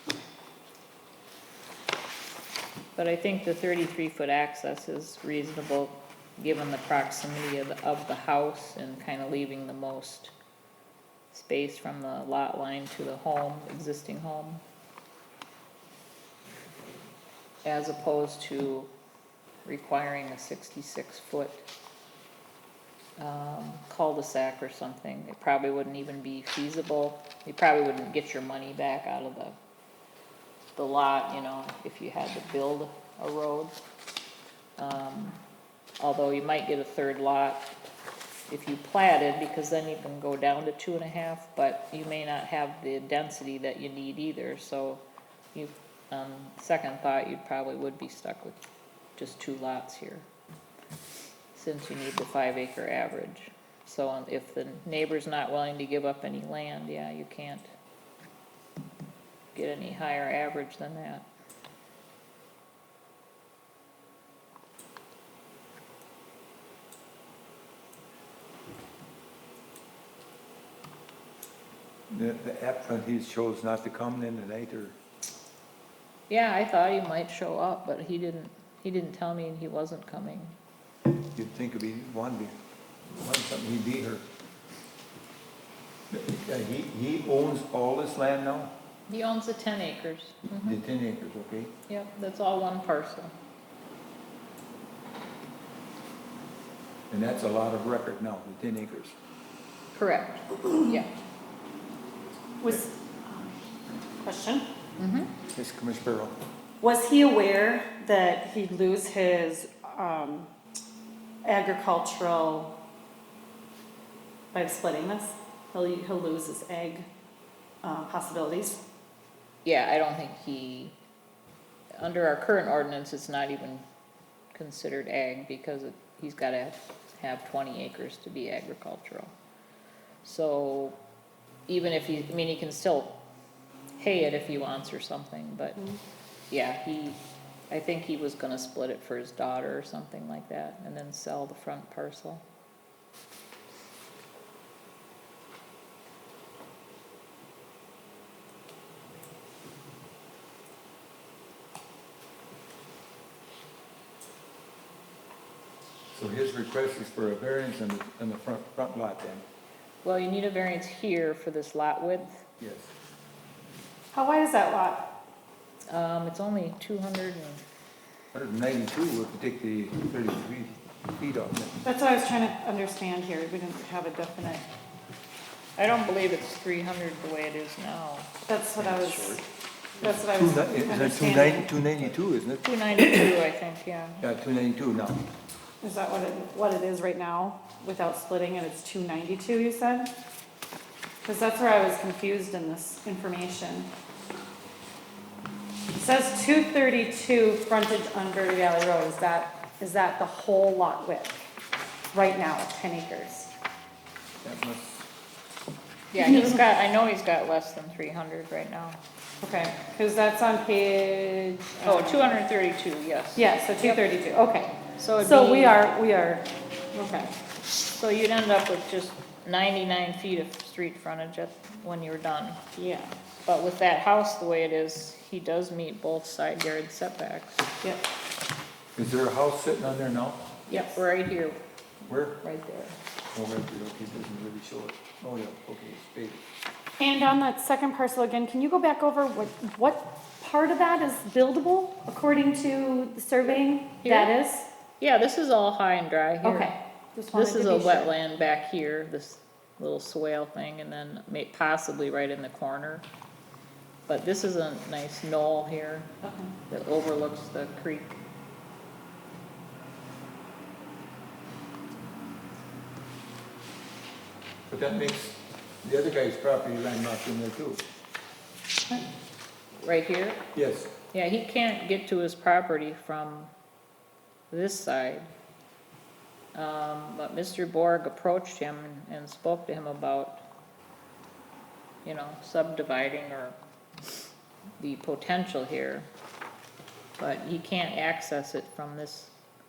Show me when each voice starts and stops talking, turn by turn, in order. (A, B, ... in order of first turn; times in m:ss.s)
0:03.0-0:10.3 A
0:11.3-0:14.6 A
0:17.6-0:18.9 A
0:19.6-0:21.7 A
0:23.2-0:29.6 A
0:30.8-0:33.8 A
0:34.8-0:35.4 A
0:36.0-0:37.7 A
0:38.5-0:45.0 A
0:45.5-0:48.6 A
0:49.2-0:50.2 A
0:51.5-0:57.7 A
0:59.5-1:01.3 A
1:12.1-1:15.0 B
1:16.3-1:20.6 A
1:21.3-1:22.5 B
1:23.1-1:24.2 B
1:26.1-1:28.7 B
1:29.1-1:30.8 A
1:30.5-1:31.7 B
1:31.9-1:33.3 A
1:37.1-1:39.2 B
1:39.9-1:41.1 A
1:42.6-1:43.5 C
1:44.2-1:44.6 C
1:45.0-1:45.3 A
1:45.5-1:46.3 B
1:46.8-1:50.5 C
1:51.4-1:52.7 C
1:54.5-1:57.0 C
1:57.8-1:58.8 C
1:59.6-2:00.9 A
2:02.0-2:03.8 A
2:04.5-2:09.3 A
2:10.2-2:11.0 A
2:11.7-2:13.2 A
2:14.0-2:15.8 A
2:16.5-2:17.2 A
2:17.7-2:22.4 A
2:36.1-2:39.4 B
2:40.0-2:42.5 A
2:42.6-2:42.9 B
2:44.1-2:45.0 C
2:45.9-2:47.6 A
2:48.3-2:51.8 B
2:51.8-2:54.6 C
2:55.8-2:58.3 A
2:58.5-2:59.4 C
2:58.8-2:59.4 B
3:00.0-3:01.7 C
3:00.2-3:03.3 B
3:02.6-3:04.2 A
3:04.2-3:05.2 B
3:05.8-3:10.1 C
3:11.2-3:13.9 C
3:15.9-3:21.5 C
3:22.1-3:23.5 C
3:24.4-3:25.1 B
3:26.1-3:29.0 A
3:26.2-3:26.6 C
3:29.4-3:32.4 C
3:31.8-3:34.0 A
3:33.4-3:37.3 C
3:35.0-3:35.8 A
3:37.9-3:42.6 A
3:42.8-3:43.1 C
3:43.4-3:47.6 A
3:49.0-3:50.5 B
3:50.7-3:51.6 A
3:50.7-3:51.0 C
3:52.0-3:52.4 B
3:52.4-3:53.0 A
3:53.3-3:56.4 B
3:57.0-4:04.7 C
4:04.0-4:04.3 A
4:05.0-4:06.7 A
4:06.4-4:08.1 C
4:07.3-4:13.0 A
4:14.1-4:16.1 A
4:16.2-4:16.5 C
4:16.7-4:18.2 A
4:24.7-4:27.8 B
4:29.8-4:30.4 A
4:30.5-4:30.9 B
4:31.1-4:33.5 A
4:34.5-4:35.3 A
4:36.5-4:40.4 A
4:42.0-4:43.6 A
4:44.8-4:46.1 A
4:47.2-4:49.3 A